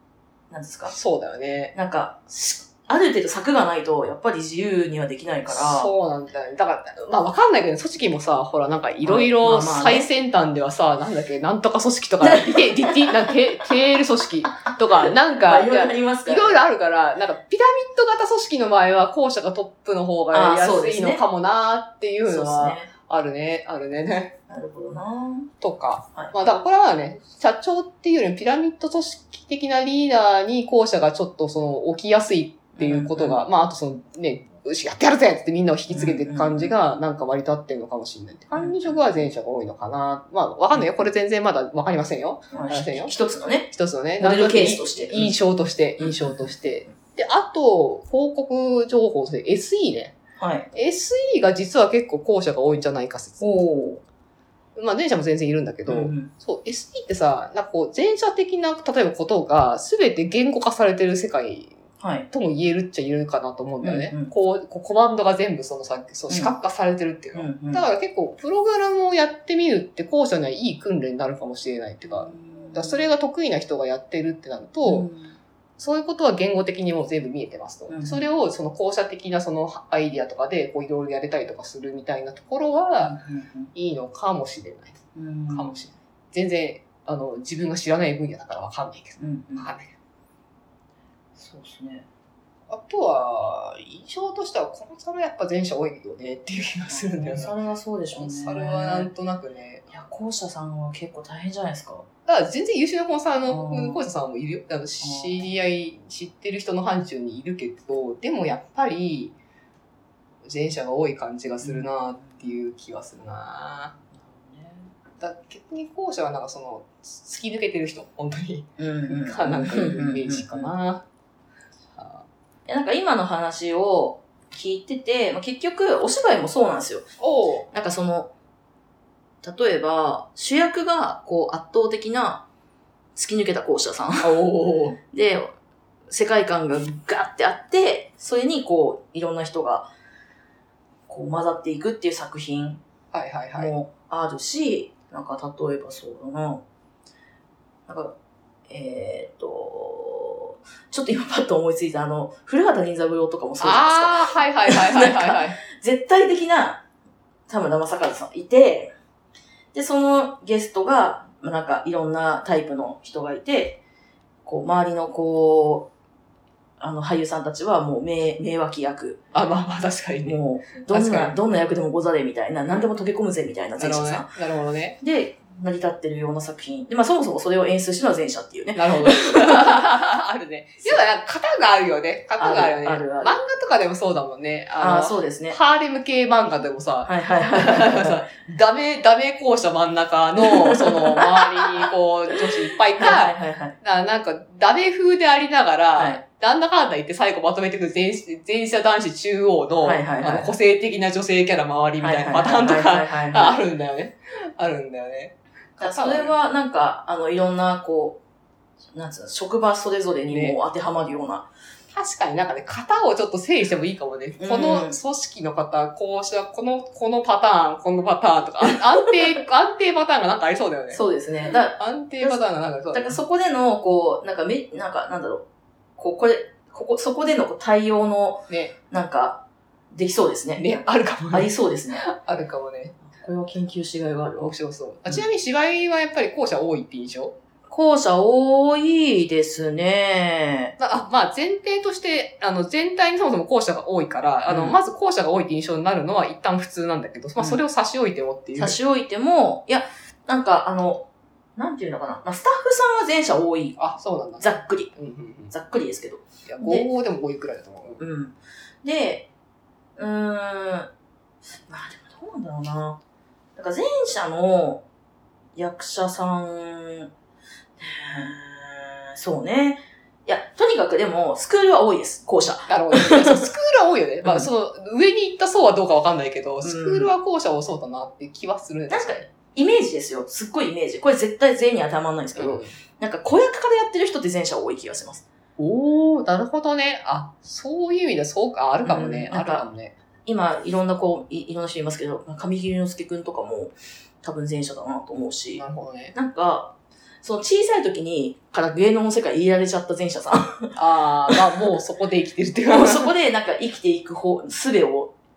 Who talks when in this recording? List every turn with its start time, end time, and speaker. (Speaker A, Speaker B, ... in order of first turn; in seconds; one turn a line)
Speaker A: 0.5-0.9
Speaker B: 0.9-1.7
Speaker A: 1.7-5.9
Speaker B: 5.5-24.3
Speaker A: 9.0-10.1
Speaker A: 12.2-13.3
Speaker A: 15.0-16.6
Speaker A: 20.3-21.2
Speaker A: 22.2-22.9
Speaker A: 24.5-25.5
Speaker B: 25.6-50.1
Speaker A: 32.8-33.4
Speaker A: 35.9-36.7
Speaker A: 38.5-38.8
Speaker A: 42.5-45.4
Speaker A: 46.0-46.5
Speaker A: 50.4-50.7
Speaker B: 50.7-53.6
Speaker A: 53.4-54.0
Speaker B: 54.8-61.7
Speaker A: 55.9-56.3
Speaker A: 62.0-62.3
Speaker B: 62.3-75.1
Speaker A: 63.8-64.3
Speaker A: 67.3-67.8
Speaker A: 72.0-73.0
Speaker A: 74.8-75.4
Speaker B: 75.8-83.2
Speaker A: 77.9-78.3
Speaker A: 83.0-83.7
Speaker B: 83.7-85.0
Speaker A: 85.1-85.8
Speaker B: 85.5-89.9
Speaker A: 89.2-89.7
Speaker A: 91.3-92.1
Speaker B: 92.7-97.5
Speaker A: 96.9-99.1
Speaker B: 98.1-99.8
Speaker A: 99.9-102.1
Speaker B: 102.2-109.3
Speaker A: 103.5-104.0
Speaker A: 105.0-105.5
Speaker B: 110.4-114.0
Speaker A: 111.6-112.5
Speaker A: 114.1-114.9
Speaker B: 115.2-121.0
Speaker A: 118.8-120.7
Speaker B: 121.9-122.2
Speaker A: 122.7-127.1
Speaker B: 127.2-127.7
Speaker A: 127.7-128.3
Speaker A: 129.4-132.4
Speaker A: 133.1-134.4
Speaker B: 134.2-135.0
Speaker A: 135.1-135.5
Speaker A: 136.1-139.9
Speaker A: 141.1-142.8
Speaker B: 143.1-143.7
Speaker A: 143.5-146.6
Speaker A: 147.9-148.2
Speaker A: 148.7-156.8
Speaker B: 153.6-155.6
Speaker A: 157.5-158.9
Speaker A: 159.7-163.8
Speaker A: 164.4-165.9
Speaker A: 166.8-169.2
Speaker B: 169.3-171.4
Speaker A: 170.2-174.4
Speaker B: 173.8-175.0
Speaker A: 175.0-179.7
Speaker B: 178.7-206.3
Speaker A: 182.4-183.4
Speaker A: 184.8-185.6
Speaker A: 187.1-188.2
Speaker A: 190.4-193.8
Speaker A: 195.9-196.2
Speaker A: 199.8-200.5
Speaker A: 202.0-203.6
Speaker A: 205.8-208.2
Speaker A: 208.9-211.5
Speaker B: 210.3-210.6
Speaker B: 211.9-221.0
Speaker A: 214.4-215.0
Speaker A: 220.9-222.4
Speaker B: 221.7-223.2
Speaker A: 222.9-225.4
Speaker A: 226.0-232.1
Speaker B: 228.5-228.7
Speaker B: 230.6-233.0
Speaker A: 233.1-234.5
Speaker B: 234.4-237.3
Speaker A: 237.7-240.7
Speaker B: 240.8-248.8
Speaker A: 244.5-244.8
Speaker A: 248.6-253.8
Speaker B: 253.8-255.5
Speaker A: 254.4-254.9
Speaker A: 255.5-256.9
Speaker B: 256.5-258.0
Speaker A: 258.0-259.3
Speaker A: 260.0-260.9
Speaker A: 261.7-263.0
Speaker A: 263.6-264.8
Speaker A: 265.5-267.1
Speaker A: 267.8-273.5
Speaker B: 272.7-279.2
Speaker A: 276.6-277.1
Speaker A: 278.9-285.2
Speaker B: 282.4-282.7
Speaker B: 285.6-290.0
Speaker A: 288.8-289.6
Speaker A: 290.2-300.7
Speaker B: 295.5-296.1
Speaker B: 300.7-303.1
Speaker A: 302.6-305.1